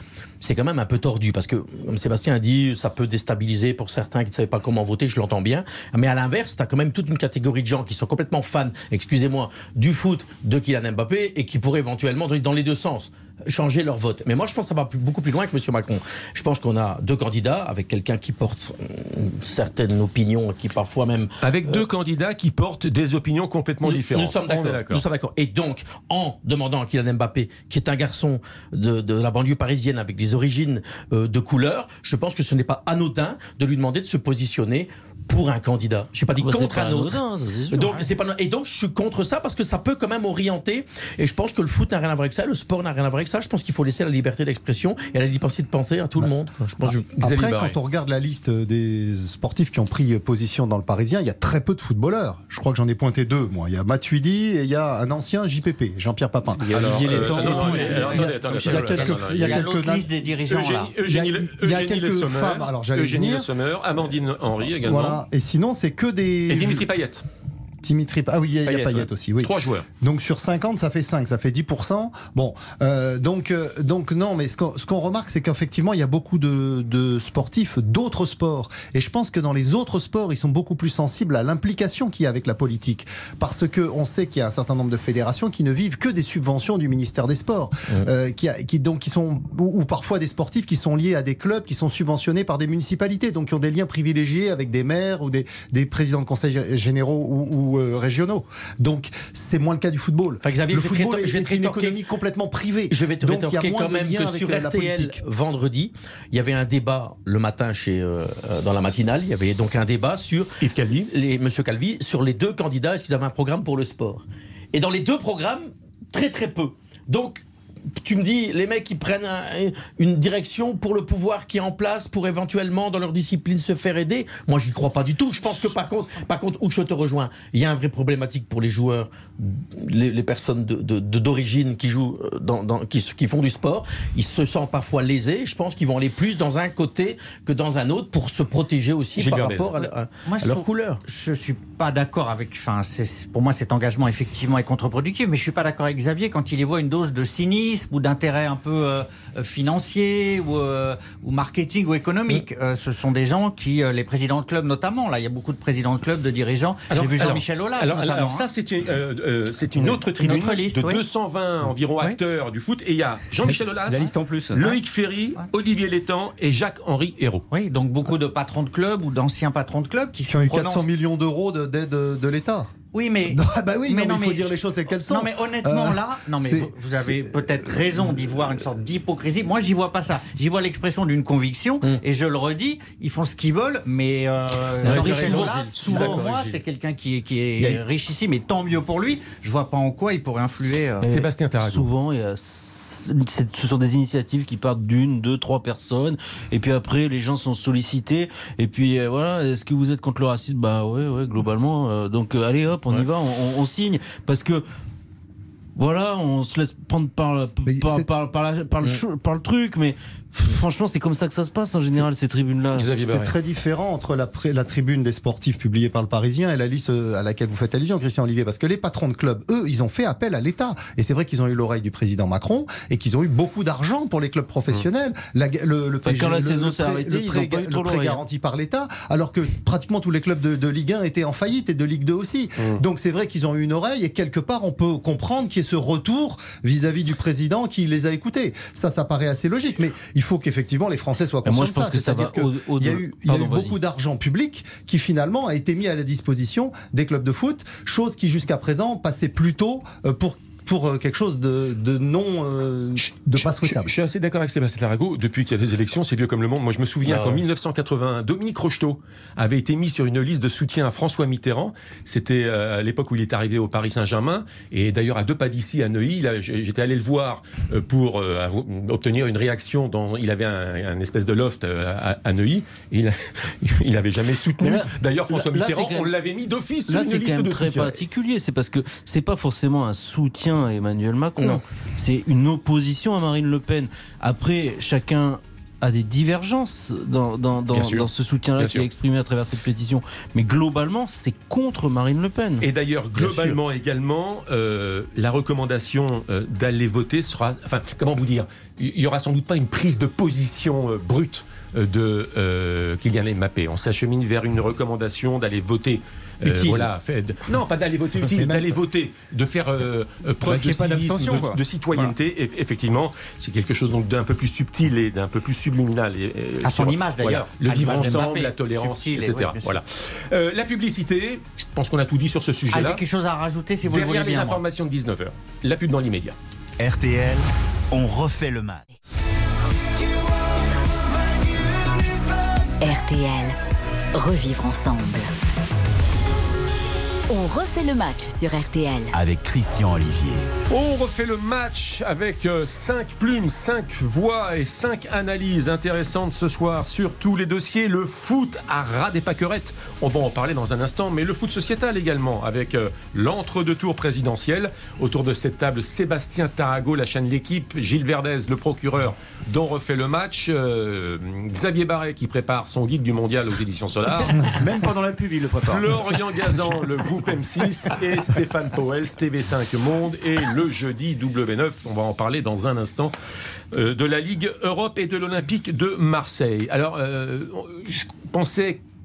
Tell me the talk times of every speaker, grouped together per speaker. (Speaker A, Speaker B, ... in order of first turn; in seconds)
Speaker A: 0.4-21.8, 23.8-47.0, 57.2-58.3, 100.4-102.0, 102.9-110.6, 111.1-141.0, 184.8-186.6, 257.0-257.4, 306.4-306.9
Speaker B: 21.4-25.0, 47.1-47.8, 56.7-59.7, 60.5-65.2, 66.5-67.2, 69.4-69.8, 110.6-111.1, 139.2-139.8, 156.9-167.4, 185.2-186.3, 191.0-191.9, 212.7-213.3, 232.6-232.8, 253.0-278.0, 287.7-288.9, 292.6-323.0, 323.9-326.4, 340.7-364.5, 365.6-373.1, 373.7-378.8
Speaker C: 36.4-38.1, 184.8-185.6, 191.0-204.6, 205.8-213.0, 226.0-228.2, 241.4-243.8, 274.6-276.1, 276.9-293.6
Speaker D: 46.2-60.1, 61.0-63.5, 64.8-66.9, 67.8-105.2, 170.3-172.7, 173.3-178.2, 207.6-208.2, 213.1-253.9, 308.3-308.8
Speaker E: 56.6-58.1, 68.6-69.1, 163.8-164.6, 310.4-311.6, 364.5-366.0
Speaker F: 58.0-60.9, 140.2-158.4, 160.2-161.0, 167.5-170.8, 172.9-174.5, 175.1-191.0, 316.6-319.8, 322.7-324.6
Speaker G: 326.8-328.9, 339.1-340.4
Speaker H: 332.8-333.6, 334.1-335.3, 337.3-339.1